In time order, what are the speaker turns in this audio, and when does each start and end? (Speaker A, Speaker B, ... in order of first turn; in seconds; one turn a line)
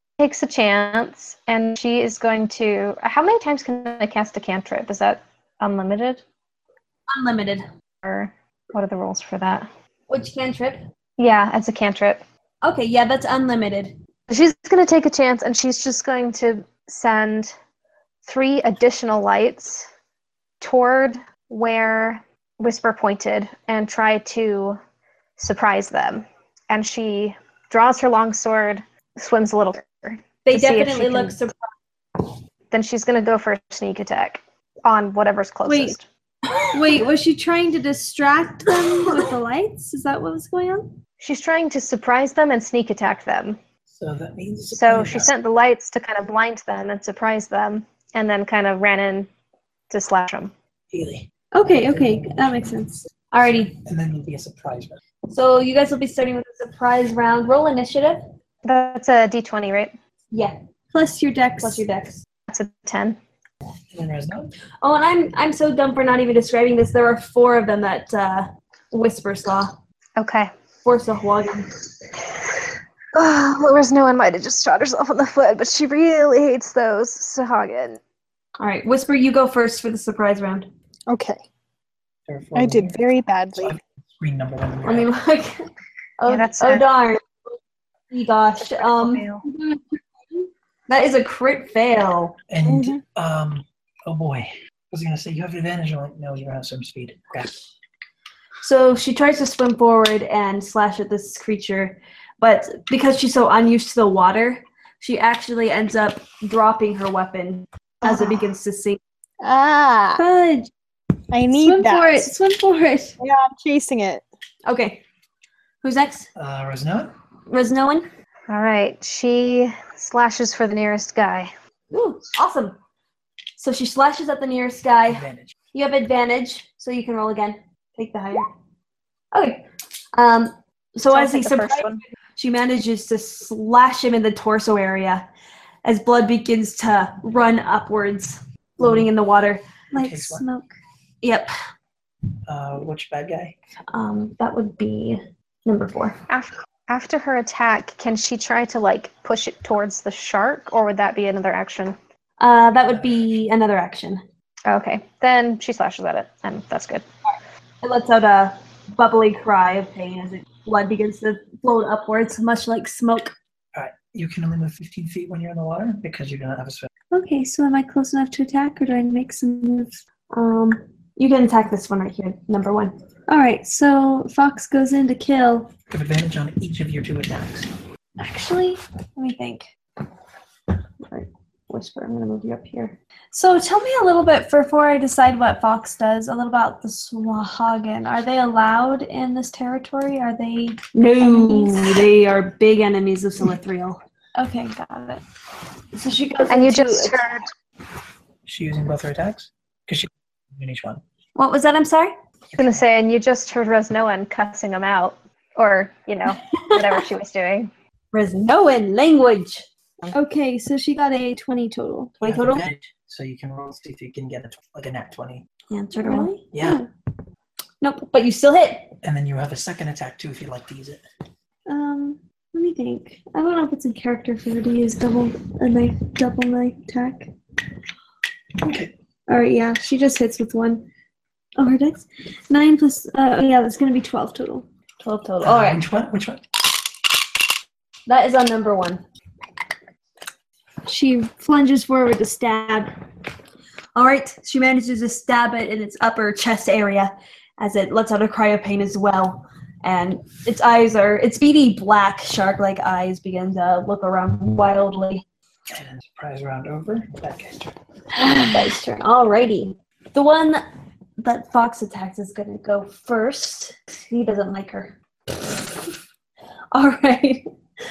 Speaker A: 0.2-6.2
Speaker B: 7.1-7.7
Speaker A: 8.0-9.7
Speaker B: 10.1-10.8
Speaker A: 11.2-12.2
Speaker B: 12.6-14.0
Speaker A: 14.3-17.6
Speaker A: 18.2-19.9
Speaker A: 20.6-24.8
Speaker A: 25.4-31.4
Speaker B: 30.5-31.6
Speaker A: 32.7-36.1
Speaker C: 35.7-36.0
Speaker C: 36.7-41.0
Speaker A: 41.2-43.6
Speaker D: 43.9-45.3
Speaker A: 44.7-49.3
Speaker A: 49.9-50.5
Speaker D: 50.9-51.3
Speaker C: 51.5-53.0
Speaker D: 51.8-52.4
Speaker B: 53.3-53.8
Speaker D: 53.9-55.0
Speaker B: 55.3-58.2
Speaker A: 58.6-60.0
Speaker C: 60.9-61.8
Speaker B: 61.6-62.2
Speaker A: 62.5-63.2
Speaker D: 63.9-64.5
Speaker B: 64.8-69.8
Speaker A: 70.2-70.5
Speaker B: 70.8-71.7
Speaker A: 73.2-78.0
Speaker B: 78.6-80.7
Speaker E: 81.1-81.4
Speaker D: 82.3-83.0
Speaker E: 82.5-83.8
Speaker D: 83.6-85.1
Speaker B: 84.8-85.6
Speaker B: 86.2-87.3
Speaker A: 86.3-86.9
Speaker B: 88.1-92.4
Speaker A: 88.6-89.4
Speaker D: 92.5-97.7
Speaker E: 92.6-93.0
Speaker B: 98.6-109.0
Speaker E: 108.0-108.3
Speaker E: 109.4-110.2
Speaker B: 110.2-110.7
Speaker E: 111.3-112.3
Speaker C: 111.6-113.1
Speaker E: 113.2-114.2
Speaker B: 114.7-115.0
Speaker B: 115.8-116.3
Speaker D: 116.4-117.1
Speaker B: 117.5-118.1
Speaker A: 118.5-121.5
Speaker B: 121.9-122.8
Speaker B: 123.6-128.5
Speaker D: 125.1-125.5
Speaker B: 129.3-135.3
Speaker A: 131.1-132.0
Speaker B: 135.8-139.8
Speaker C: 139.9-140.8
Speaker D: 140.0-140.4
Speaker B: 141.2-141.5
Speaker D: 142.5-143.6
Speaker B: 143.9-146.2
Speaker A: 146.3-152.0
Speaker B: 152.4-154.2
Speaker A: 154.7-157.0
Speaker B: 157.8-163.3
Speaker D: 163.8-166.9
Speaker C: 167.1-170.0
Speaker B: 170.3-173.0
Speaker C: 173.3-175.7
Speaker D: 175.9-177.8
Speaker C: 178.2-179.7
Speaker B: 181.1-183.0
Speaker C: 183.3-192.0
Speaker B: 190.9-194.0
Speaker C: 194.4-195.2
Speaker C: 196.0-197.2
Speaker A: 196.5-197.5
Speaker D: 198.5-201.0
Speaker B: 201.4-202.2
Speaker D: 202.5-202.8
Speaker A: 202.6-207.7
Speaker B: 208.1-209.7
Speaker C: 210.1-212.2
Speaker B: 212.2-212.7
Speaker D: 212.2-215.4
Speaker B: 215.7-216.5
Speaker C: 216.0-216.9
Speaker D: 216.5-216.8
Speaker B: 217.8-219.0
Speaker D: 219.0-221.0
Speaker C: 221.7-227.3
Speaker D: 228.6-228.9
Speaker C: 229.3-230.2
Speaker B: 230.0-230.8
Speaker C: 231.6-231.9
Speaker B: 231.8-232.0
Speaker C: 232.5-234.7
Speaker B: 235.0-235.8
Speaker D: 235.4-236.4
Speaker B: 238.1-239.0
Speaker C: 240.9-242.9
Speaker B: 243.9-255.2
Speaker D: 255.7-257.7
Speaker B: 258.2-260.6
Speaker B: 261.2-265.9
Speaker B: 266.7-267.4